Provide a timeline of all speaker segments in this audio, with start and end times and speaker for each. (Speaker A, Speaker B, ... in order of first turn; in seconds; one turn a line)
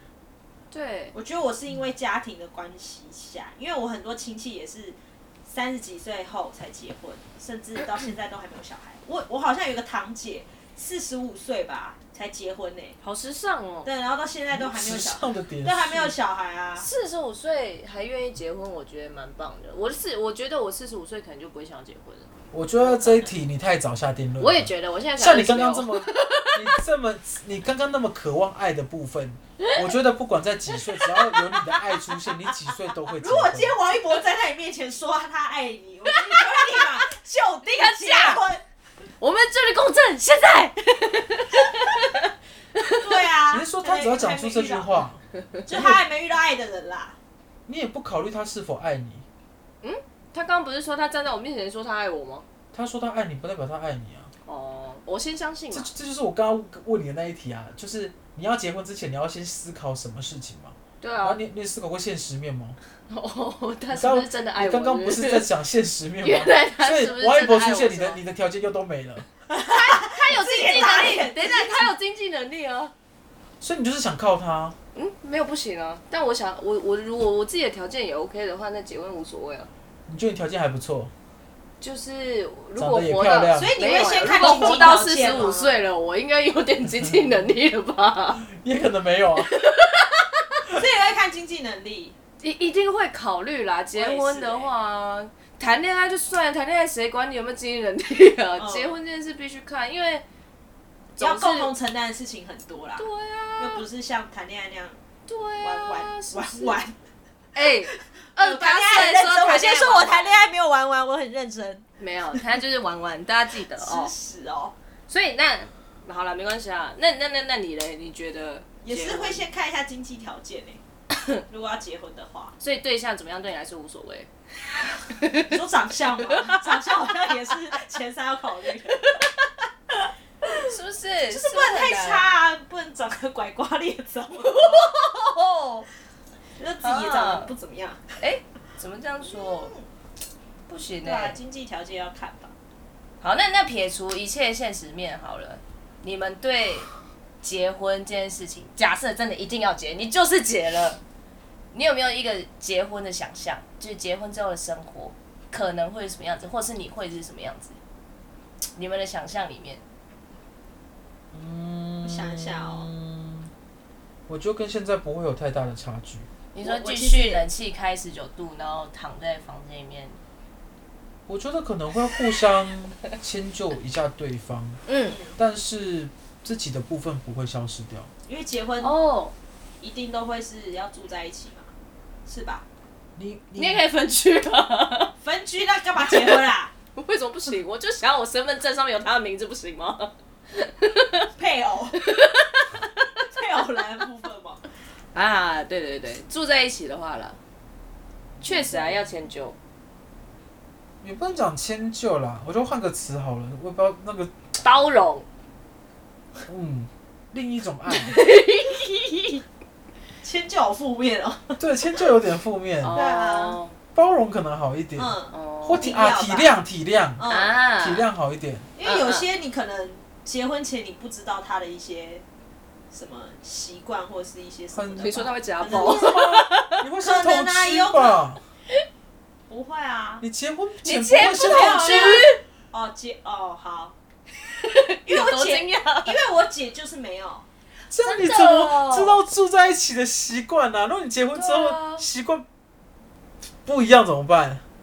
Speaker A: 0.7-1.1
Speaker B: 1.1-13.0
Speaker A: 13.0-13.9
Speaker B: 13.8-16.9
Speaker C: 14.5-16.1
Speaker A: 16.8-23.3
Speaker C: 22.5-33.8
Speaker A: 24.4-26.5
Speaker B: 33.2-38.6
Speaker A: 37.6-38.4
Speaker A: 39.2-43.0
Speaker B: 43.0-45.0
Speaker C: 43.5-46.0
Speaker B: 45.6-47.2
Speaker C: 47.7-49.2
Speaker A: 49.8-52.4
Speaker C: 52.7-54.3
Speaker A: 54.4-55.9
Speaker C: 55.7-62.8
Speaker A: 61.0-61.4
Speaker A: 63.1-65.5
Speaker C: 63.9-69.3
Speaker A: 66.2-68.2
Speaker B: 69.5-71.9
Speaker A: 69.7-72.9
Speaker C: 73.6-74.8
Speaker A: 74.9-79.7
Speaker C: 80.1-81.1
Speaker A: 81.8-88.4
Speaker C: 82.8-83.8
Speaker B: 83.5-85.8
Speaker C: 88.4-89.5
Speaker A: 89.4-90.4
Speaker B: 90.7-92.1
Speaker A: 92.4-100.2
Speaker B: 93.9-94.7
Speaker B: 98.6-99.0
Speaker A: 101.1-101.7
Speaker B: 101.2-103.1
Speaker A: 103.0-103.8
Speaker B: 103.6-105.0
Speaker A: 105.2-106.8
Speaker B: 105.6-107.0
Speaker A: 107.5-110.4
Speaker B: 107.9-111.8
Speaker A: 112.0-114.1
Speaker B: 113.8-114.7
Speaker A: 115.1-119.5
Speaker B: 118.8-120.8
Speaker B: 121.5-122.5
Speaker A: 122.6-124.3
Speaker A: 125.1-125.6
Speaker B: 125.4-129.3
Speaker B: 129.9-130.5
Speaker A: 130.6-132.2
Speaker B: 131.3-134.9
Speaker A: 134.3-135.9
Speaker B: 136.6-138.1
Speaker A: 136.8-137.5
Speaker A: 138.2-139.7
Speaker B: 139.2-139.9
Speaker A: 140.7-141.4
Speaker B: 141.0-142.5
Speaker A: 143.2-146.9
Speaker A: 147.4-151.0
Speaker A: 151.7-157.8
Speaker A: 158.8-159.8
Speaker C: 161.3-163.5
Speaker B: 162.0-162.9
Speaker C: 164.3-166.3
Speaker A: 166.5-170.2
Speaker B: 166.6-167.4
Speaker C: 171.3-174.8
Speaker A: 174.8-175.2
Speaker B: 175.1-175.4
Speaker C: 175.3-178.1
Speaker B: 178.3-178.9
Speaker A: 178.8-179.3
Speaker B: 179.8-181.7
Speaker B: 182.2-182.6
Speaker C: 183.2-183.8
Speaker A: 183.5-185.1
Speaker B: 185.2-186.7
Speaker A: 186.0-186.4
Speaker A: 186.9-191.3
Speaker B: 191.3-192.0
Speaker A: 191.9-192.9
Speaker B: 193.3-194.6
Speaker A: 195.1-197.4
Speaker B: 198.4-199.1
Speaker A: 198.4-199.6
Speaker C: 201.0-204.3
Speaker A: 204.6-205.2
Speaker C: 206.4-208.2
Speaker A: 207.9-209.4
Speaker B: 210.2-211.6
Speaker C: 211.6-213.0
Speaker A: 212.8-213.8
Speaker B: 212.9-213.6
Speaker C: 213.9-215.1
Speaker B: 214.9-216.5
Speaker A: 215.3-215.9
Speaker C: 215.6-217.2
Speaker B: 217.2-217.6
Speaker A: 217.3-218.1
Speaker C: 217.8-218.7
Speaker B: 218.8-222.2
Speaker A: 218.8-219.2
Speaker B: 222.9-226.2
Speaker C: 224.7-228.4
Speaker A: 225.0-226.8
Speaker B: 227.0-228.2
Speaker B: 229.5-230.2
Speaker C: 230.2-232.2
Speaker A: 230.8-232.4
Speaker B: 231.4-233.9
Speaker A: 234.4-236.2
Speaker B: 235.1-237.4
Speaker C: 237.9-242.4
Speaker A: 238.0-239.2
Speaker A: 241.3-242.0
Speaker C: 243.6-244.6